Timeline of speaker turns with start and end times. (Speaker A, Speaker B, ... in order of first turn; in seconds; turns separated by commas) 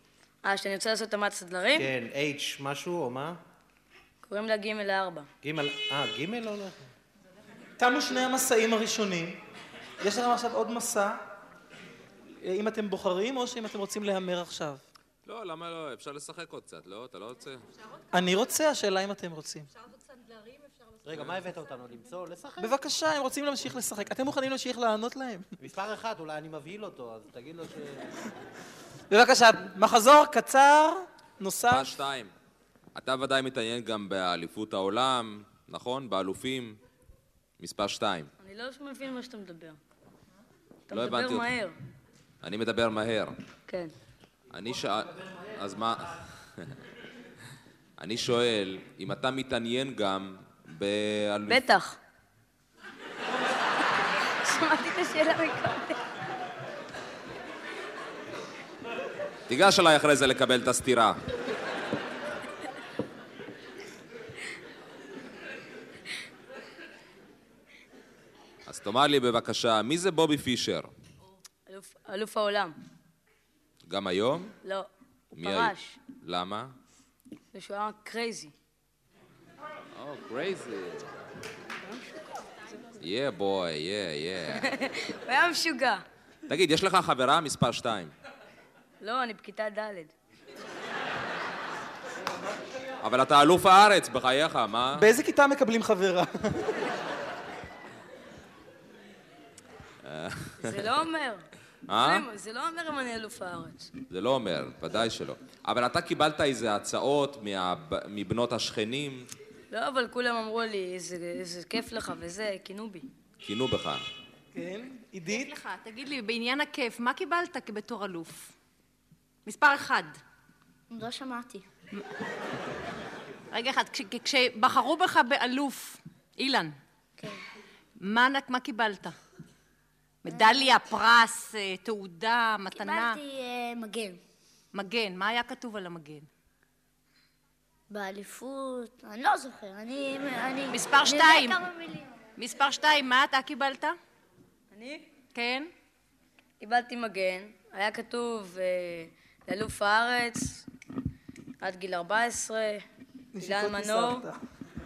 Speaker A: 0.4-1.9, Speaker B: 1.8-3.4, Speaker A: 4.2-5.3, Speaker B: 5.4-6.9, Speaker C: 7.8-9.4, Speaker C: 10.0-11.2, Speaker C: 12.4-14.8, Speaker D: 15.3-17.6, Speaker C: 18.1-19.7, Speaker E: 19.9-20.8, Speaker B: 21.1-22.8, Speaker C: 22.6-25.5, Speaker B: 25.6-28.1, Speaker C: 29.1-31.9, Speaker D: 31.7-32.3, Speaker D: 33.0-36.8, Speaker D: 37.6-38.3, Speaker A: 38.4-39.8, Speaker A: 40.9-41.7, Speaker D: 40.9-41.5, Speaker D: 42.4-43.4, Speaker D: 44.5-46.7, Speaker D: 48.0-51.6, Speaker A: 51.5-52.0, Speaker A: 54.4-56.0, Speaker D: 59.5-61.2, Speaker D: 68.7-70.9, Speaker A: 71.7-72.8, Speaker D: 73.9-74.5, Speaker A: 74.6-76.0, Speaker D: 75.4-76.7, Speaker A: 77.5-78.5, Speaker D: 80.0-81.1, Speaker D: 83.0-84.7, Speaker A: 84.6-86.0, Speaker D: 86.5-88.1, Speaker A: 89.0-90.1, Speaker D: 93.0-95.0, Speaker C: 95.0-96.9, Speaker D: 100.0-100.8, Speaker A: 100.6-101.5, Speaker D: 101.9-102.3, Speaker A: 102.0-103.9, Speaker D: 104.1-109.3, Speaker A: 109.7-113.0, Speaker D: 113.4-114.0, Speaker C: 114.5-115.5, Speaker E: 115.3-118.5, Speaker E: 119.5-120.2, Speaker F: 120.9-121.7, Speaker E: 123.5-126.8, Speaker E: 128.0-129.2, Speaker E: 130.2-133.2, Speaker F: 130.3-130.6, Speaker F: 132.7-134.2, Speaker E: 134.7-136.3, Speaker F: 137.9-142.2, Speaker E: 140.7-141.6, Speaker E: 142.4-144.0, Speaker A: 144.7-145.1, Speaker E: 145.3-145.7, Speaker A: 146.6-150.7, Speaker A: 151.6-152.8, Speaker C: 153.3-154.4, Speaker A: 153.4-154.3